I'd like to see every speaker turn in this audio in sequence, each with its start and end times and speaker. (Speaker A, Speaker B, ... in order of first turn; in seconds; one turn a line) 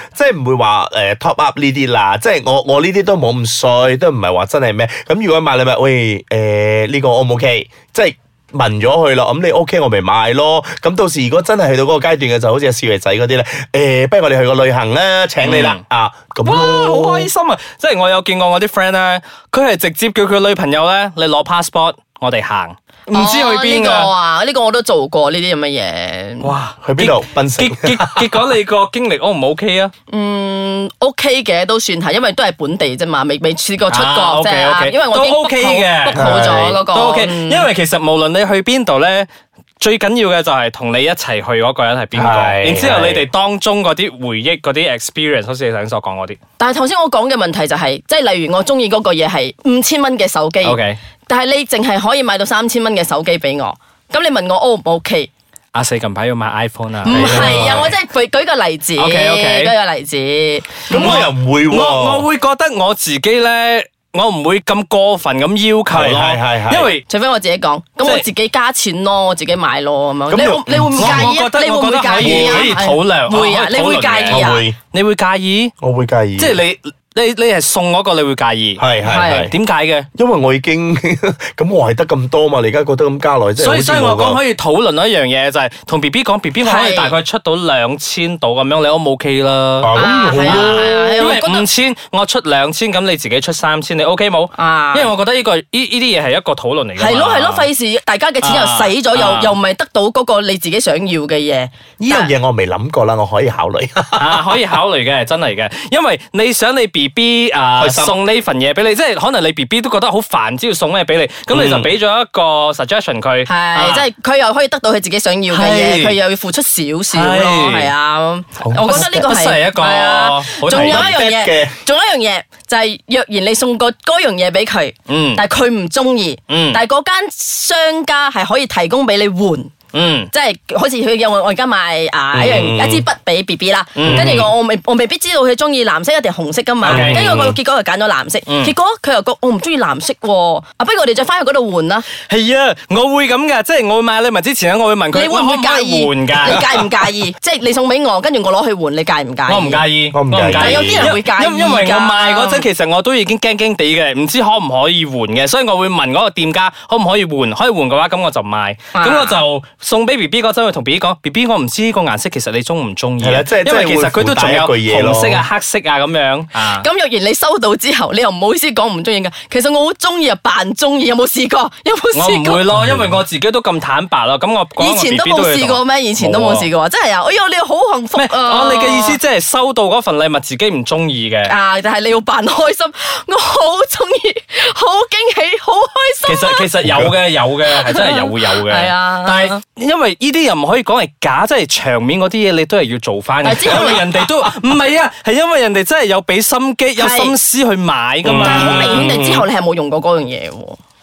Speaker A: 0.1-17.3
Speaker B: 15.4-15.8
Speaker B: 16.4-24.1
Speaker C: 23.1-26.5
Speaker B: 26.4-29.9
Speaker A: 26.8-28.4
Speaker C: 30.1-37.7
Speaker B: 33.9-39.3
Speaker A: 36.1-36.8
Speaker B: 39.8-46.4
Speaker A: 42.1-43.2
Speaker C: 46.6-55.3
Speaker B: 50.6-51.0
Speaker B: 55.7-57.9
Speaker C: 57.0-61.1
Speaker A: 57.0-57.9
Speaker B: 59.0-59.7
Speaker A: 60.9-62.3
Speaker B: 60.9-67.0
Speaker A: 65.9-66.9
Speaker C: 67.1-74.7
Speaker A: 70.3-71.3
Speaker B: 70.9-75.7
Speaker A: 72.2-72.8
Speaker A: 74.3-74.8
Speaker A: 75.8-76.6
Speaker B: 76.4-80.1
Speaker A: 78.8-79.5
Speaker C: 79.0-79.5
Speaker A: 80.1-84.4
Speaker B: 83.6-97.7
Speaker C: 86.6-87.1
Speaker A: 89.8-90.9
Speaker C: 89.9-91.7
Speaker C: 94.5-95.1
Speaker C: 97.0-102.3
Speaker B: 98.4-99.6
Speaker A: 102.0-104.5
Speaker B: 104.2-114.0
Speaker A: 107.8-108.2
Speaker A: 111.5-111.9
Speaker C: 113.5-129.7
Speaker B: 115.5-116.2
Speaker B: 117.1-117.9
Speaker A: 118.6-119.0
Speaker B: 118.7-121.1
Speaker A: 120.7-121.7
Speaker B: 125.1-125.4
Speaker B: 126.5-126.8
Speaker B: 129.9-130.3
Speaker C: 130.3-142.1
Speaker A: 132.3-133.0
Speaker B: 133.9-134.5
Speaker A: 134.0-134.5
Speaker B: 136.8-137.6
Speaker A: 136.9-137.6
Speaker B: 138.5-138.7
Speaker B: 142.2-146.8
Speaker C: 145.1-149.8
Speaker B: 149.4-166.8
Speaker A: 150.1-151.1
Speaker C: 150.6-152.6
Speaker C: 158.9-159.4
Speaker A: 163.2-165.4
Speaker C: 166.7-172.6
Speaker B: 172.1-176.7
Speaker A: 172.7-173.2
Speaker C: 174.8-179.2
Speaker B: 178.1-181.5
Speaker C: 181.4-186.7
Speaker B: 186.2-199.4
Speaker A: 186.8-187.1
Speaker C: 187.7-189.6
Speaker C: 193.4-194.0
Speaker A: 193.7-194.2
Speaker C: 197.0-197.3
Speaker A: 198.2-199.2
Speaker C: 198.3-200.8